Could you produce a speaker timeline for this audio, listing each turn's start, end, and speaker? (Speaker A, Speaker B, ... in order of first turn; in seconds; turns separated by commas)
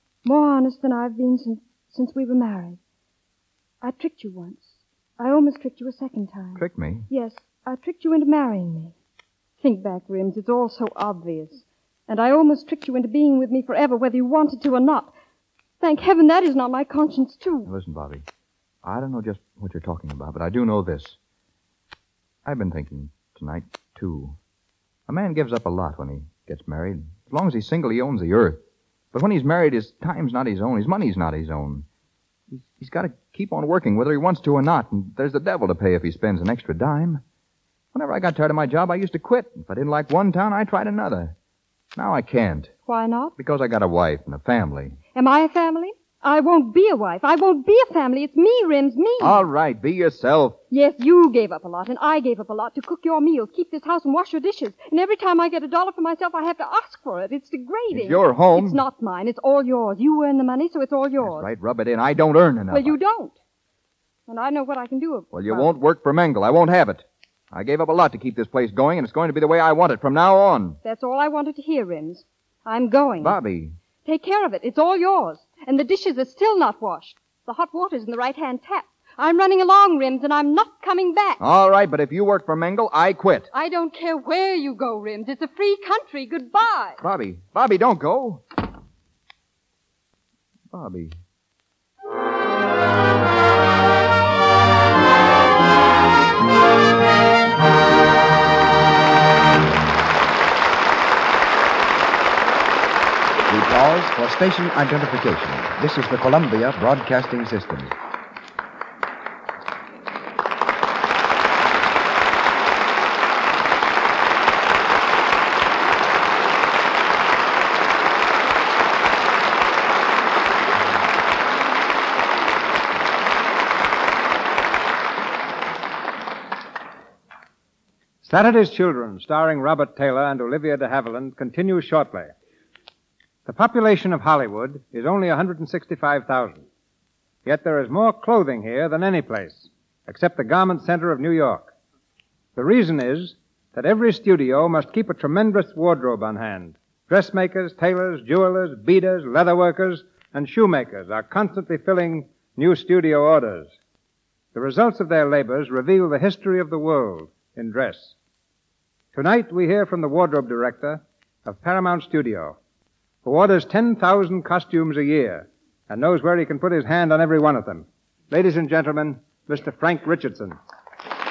Speaker A: 0.2-2.8, Speaker A: 3.8-8.9, Speaker B: 6.5-7.1, Speaker A: 9.6-15.1, Speaker A: 15.8-17.7, Speaker B: 17.7-18.2, Speaker B: 18.8-21.2, Speaker B: 22.4-24.4, Speaker B: 25.1-28.6, Speaker B: 29.1-31.9, Speaker B: 32.5-37.2, Speaker B: 37.9-41.4, Speaker B: 42.0-42.7, Speaker A: 42.9-43.3, Speaker B: 43.4-45.0, Speaker A: 45.1-49.4, Speaker B: 49.2-50.6, Speaker A: 50.7-61.5, Speaker B: 57.9-58.8, Speaker B: 61.2-63.0, Speaker A: 62.7-63.4, Speaker A: 64.3-65.7, Speaker B: 65.3-70.8, Speaker A: 70.8-73.4, Speaker B: 73.2-73.8, Speaker A: 74.0-81.4, Speaker B: 81.4-83.5, Speaker A: 83.5-87.0, Speaker B: 87.0-88.4, Speaker B: 90.7-91.2, Speaker C: 103.5-107.9, Speaker D: 128.2-132.3, Speaker D: 133.5-136.6, Speaker D: 137.4-141.7, Speaker D: 142.6-153.8, Speaker D: 154.5-158.2, Speaker D: 159.1-162.6, Speaker D: 163.2-170.6